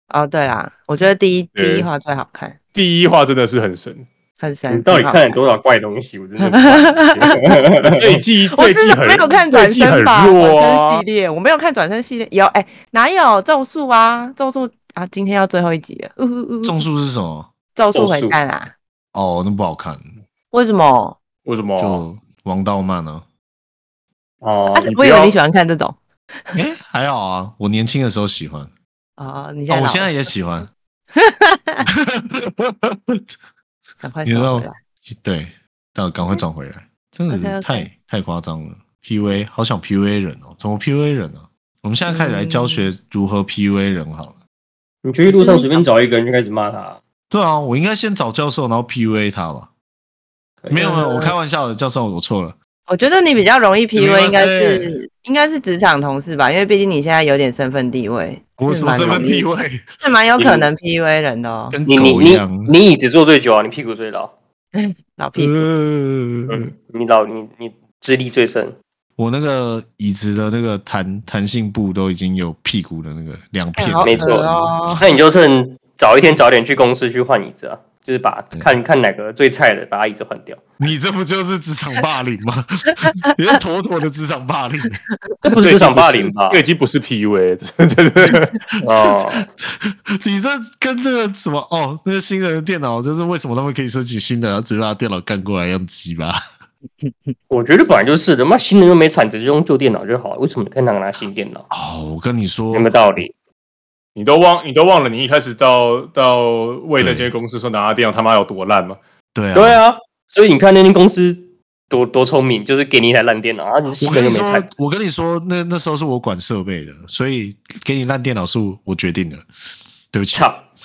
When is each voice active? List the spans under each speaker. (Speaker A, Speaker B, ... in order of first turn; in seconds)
Speaker A: 0.1-2.6, 4.4-5.4, 6.4-7.4, 8.5-16.8, 17.8-18.7, 20.5-21.2, 24.7-26.0, 29.2-30.3, 31.2-31.9, 34.0-34.8, 37.3-37.9, 42.1-42.9, 45.3-45.9, 50.8-51.3, 52.9-59.5, 60.0-61.8, 64.8-65.7, 73.8-75.0
Speaker B: 1.6-1.9, 2.7-4.0, 7.8-11.0, 21.4-22.0, 24.4-25.3, 85.6-88.5, 104.2-109.0
Speaker C: 4.7-8.2, 17.9-18.4, 45.0-47.0, 50.6-50.9, 61.9-64.3, 66.5-68.8, 74.0-80.6, 85.4-86.6, 88.8-89.5, 97.5-101.7, 102.7-103.3, 109.5-114.7, 120.3-120.6
Speaker D: 16.6-17.5, 19.1-20.1, 21.8-23.2, 26.6-28.7, 29.7-30.7, 31.9-33.2, 34.2-44.4, 47.3-49.7, 50.7-52.6, 53.9-54.9, 58.6-59.9, 61.7-62.7, 65.4-66.7, 69.2-75.1, 80.8-85.0, 88.9-96.4, 101.7-103.2, 107.0-107.3, 109.3-109.8, 114.0-119.5, 120.1-120.4